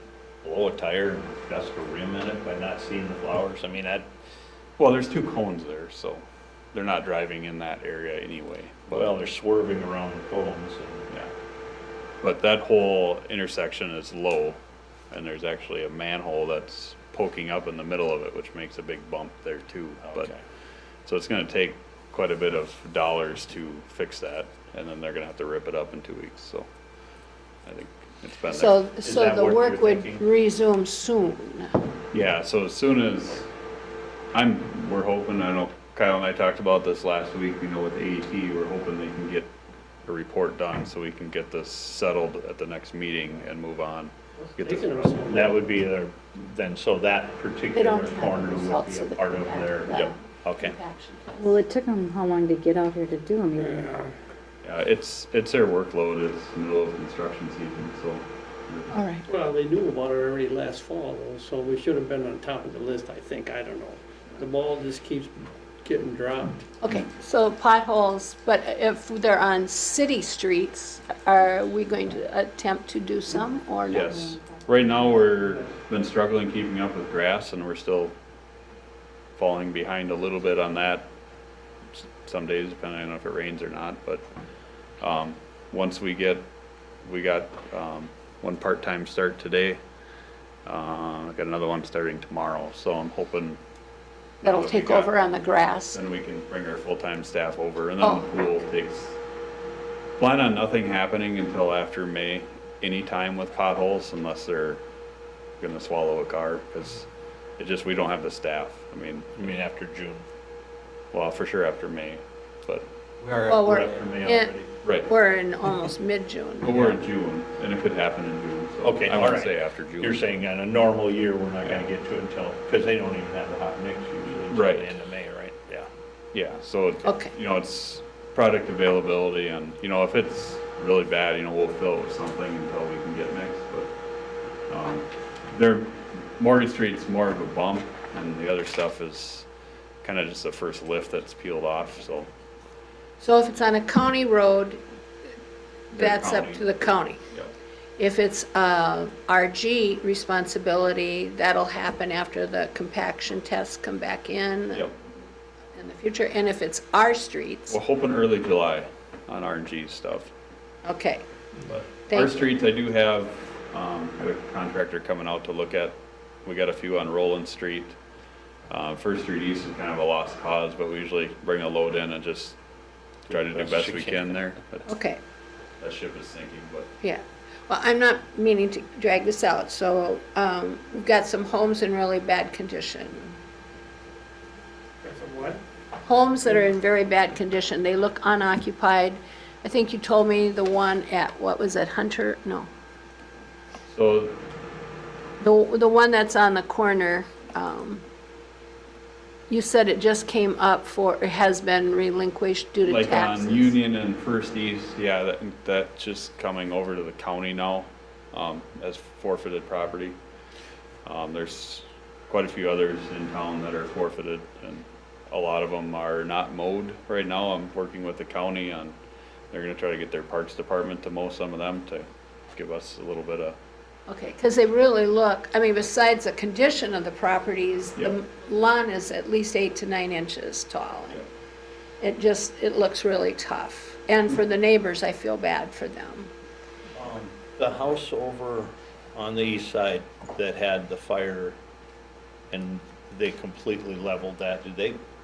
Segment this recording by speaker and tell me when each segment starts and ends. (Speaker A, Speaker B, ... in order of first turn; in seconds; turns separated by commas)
Speaker A: 0.4-4.1, Speaker B: 4.8-9.2, Speaker A: 8.9-11.1, Speaker B: 12.2-14.6, Speaker B: 15.1-20.3, Speaker A: 20.0-20.4, Speaker B: 21.1-26.7, Speaker B: 27.6-28.8, Speaker C: 28.5-31.8, Speaker A: 29.0-30.2, Speaker B: 32.1-33.4, Speaker B: 34.3-39.5, Speaker B: 40.0-45.4, Speaker D: 44.5-45.6, Speaker A: 45.3-50.8, Speaker C: 47.7-51.5, Speaker E: 51.4-54.0, Speaker D: 53.6-54.1, Speaker B: 54.6-58.9, Speaker C: 58.9-59.2, Speaker D: 59.3-66.6, Speaker C: 66.8-74.1, Speaker E: 73.9-75.0, Speaker B: 73.9-78.1, Speaker D: 75.4-75.7, Speaker B: 79.4-81.1, Speaker B: 82.2-84.2, Speaker B: 85.0-86.4, Speaker B: 87.0-89.8, Speaker B: 90.7-93.6, Speaker B: 94.4-95.2, Speaker C: 94.4-96.0, Speaker B: 95.9-99.2, Speaker C: 98.0-98.2, Speaker B: 100.2-104.8, Speaker B: 105.6-107.1, Speaker B: 107.6-109.6, Speaker A: 109.4-110.2, Speaker B: 111.1-112.8, Speaker A: 113.2-114.7, Speaker C: 113.5-114.5, Speaker B: 114.8-115.1, Speaker C: 115.0-117.0, Speaker B: 116.6-120.3, Speaker A: 118.8-125.9, Speaker B: 121.6-121.9, Speaker B: 124.5-124.9, Speaker B: 126.3-133.9, Speaker C: 127.0-127.3, Speaker B: 134.7-139.5, Speaker B: 140.0-142.3, Speaker C: 143.2-144.8, Speaker C: 145.9-147.2, Speaker B: 145.9-147.5, Speaker C: 148.0-154.9, Speaker C: 155.7-157.8, Speaker B: 157.7-160.3, Speaker C: 160.8-161.2, Speaker B: 161.7-167.9, Speaker C: 162.1-162.5, Speaker B: 168.7-172.6, Speaker A: 173.3-174.3, Speaker B: 173.3-174.9, Speaker C: 174.8-175.2, Speaker B: 175.8-176.9, Speaker C: 177.0-183.4, Speaker D: 185.0-185.6, Speaker C: 186.0-192.7, Speaker B: 193.9-194.4, Speaker C: 195.4-198.0, Speaker C: 199.5-203.7, Speaker B: 202.8-210.2, Speaker B: 211.1-218.9, Speaker B: 219.5-223.6, Speaker C: 224.1-231.2, Speaker C: 232.0-236.3, Speaker A: 236.9-241.6, Speaker A: 242.5-245.0